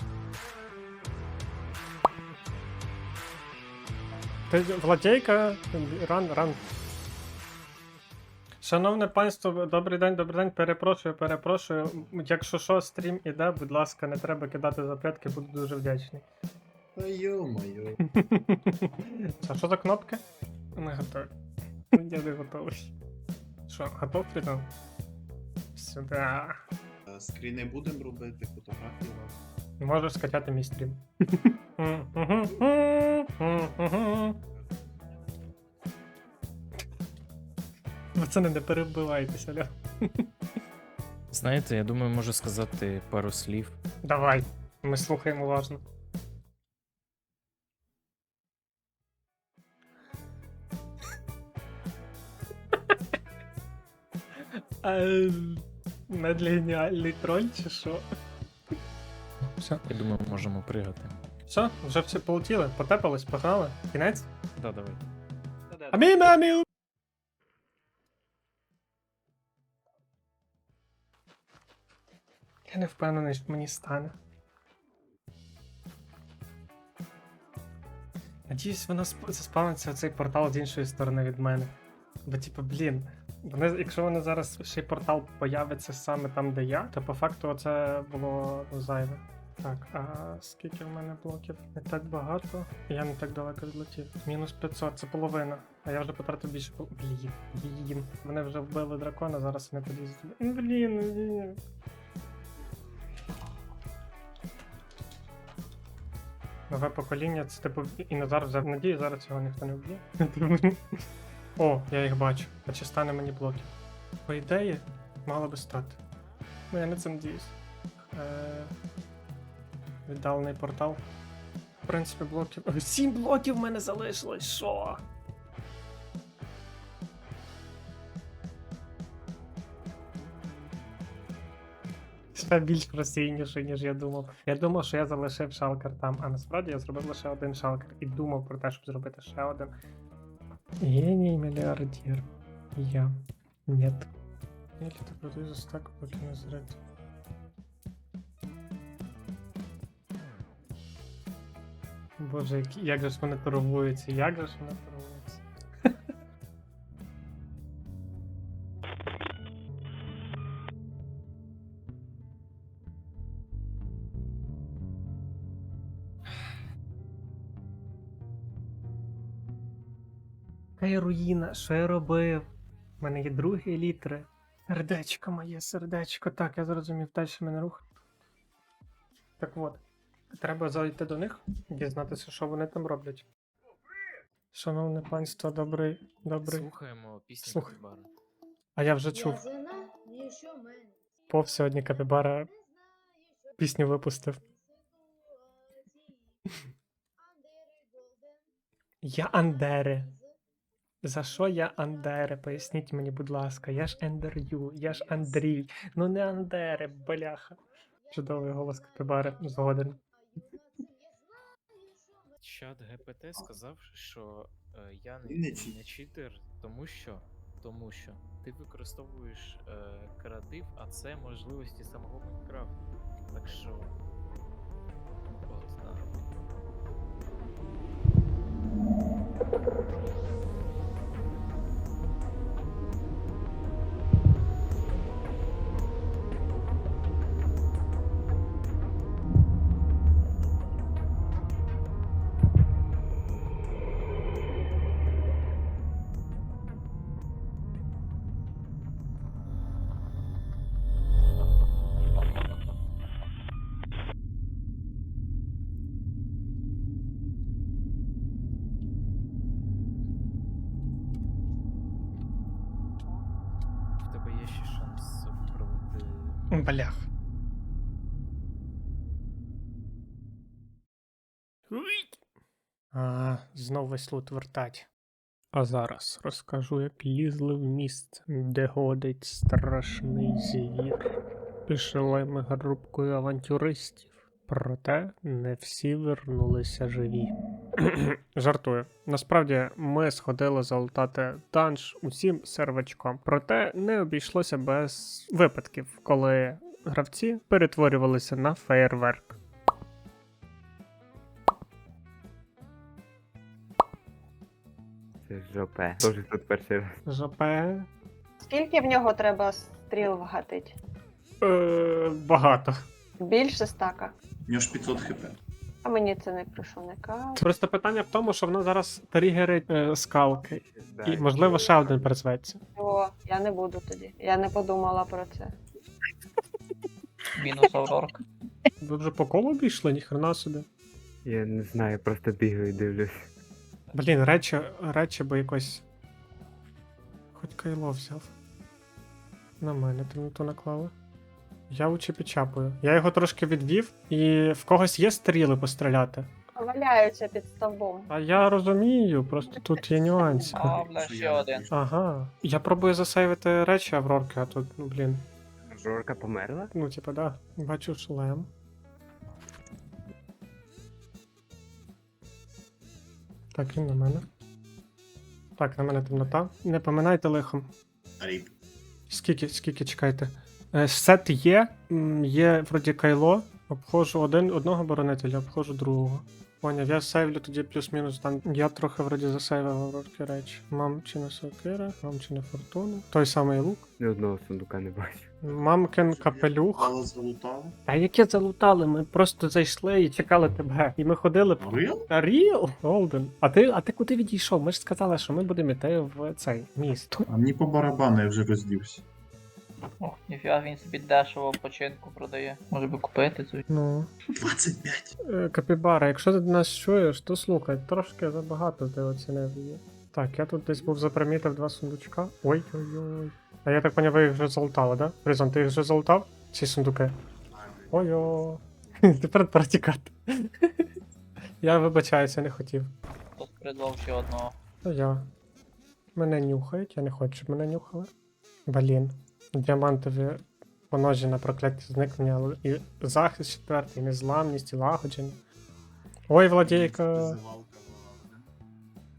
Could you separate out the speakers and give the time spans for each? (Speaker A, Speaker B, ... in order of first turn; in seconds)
Speaker A: 4.5-6.6, 8.6-16.2, 18.0-20.2, 20.8-21.3, 21.9-22.9, 23.7-24.7, 25.7-26.6, 29.8-34.4, 38.2-40.3, 44.0-45.8, 54.8-58.1, 59.6-59.8, 61.5-64.3, 65.9-66.6, 72.7-74.1, 78.5-81.7, 82.2-101.6, 106.7-110.8, 111.6-113.7, 114.2-116.0, 116.7-117.5, 118.1-118.7, 120.1-121.0, 121.8-125.0, 132.3-139.7, 140.8-144.1, 144.8-146.8, 152.2-155.9, 170.8-172.5, 173.0-177.8, 179.4-183.2, 184.5-186.7, 187.4-187.8, 188.8-189.5, 191.3-192.5, 193.6-194.4, 199.0-200.1, 201.0-210.0, 266.5-267.1, 271.7-272.2, 272.9-274.9, 275.5-281.1, 281.7-299.4, 307.1-307.9, 311.4-312.8, 317.4-322.6, 328.8-330.7, 333.9-335.9, 337.3-338.3, 339.6-340.9, 341.7-346.3, 348.1-350.8, 351.7-355.2, 356.7-358.5, 363.5-364.2, 365.6-367.7, 369.1-383.8, 385.4-386.9, 387.9-397.2, 403.7-404.1, 405.2-417.1, 417.9-420.9, 421.6-422.9, 424.8-425.3, 426.1-428.1, 428.7-435.4, 436.3-437.4
Speaker B: 16.9-18.0, 27.1-29.4, 215.2-215.8, 314.5-315.4, 350.6-351.9, 368.2-368.5, 385.5-387.8, 391.6-392.1, 397.3-399.1, 404.4-405.1, 417.5-418.5, 436.6-438.5
Speaker C: 41.3-43.8, 59.9-61.2, 64.6-65.0, 65.7-66.0, 186.4-188.1, 204.9-205.4, 212.4-222.8, 223.3-223.9, 225.3-226.2, 264.1-266.8
Speaker D: 305.2-307.0, 320.4-322.1, 331.2-333.3, 355.7-356.7, 384.0-385.3
Speaker E: 308.4-310.8, 313.2-314.1, 315.8-317.4, 322.8-325.6, 346.6-348.1, 349.5-350.3
Speaker F: 327.3-328.2, 350.2-351.6, 400.0-403.6, 423.4-424.6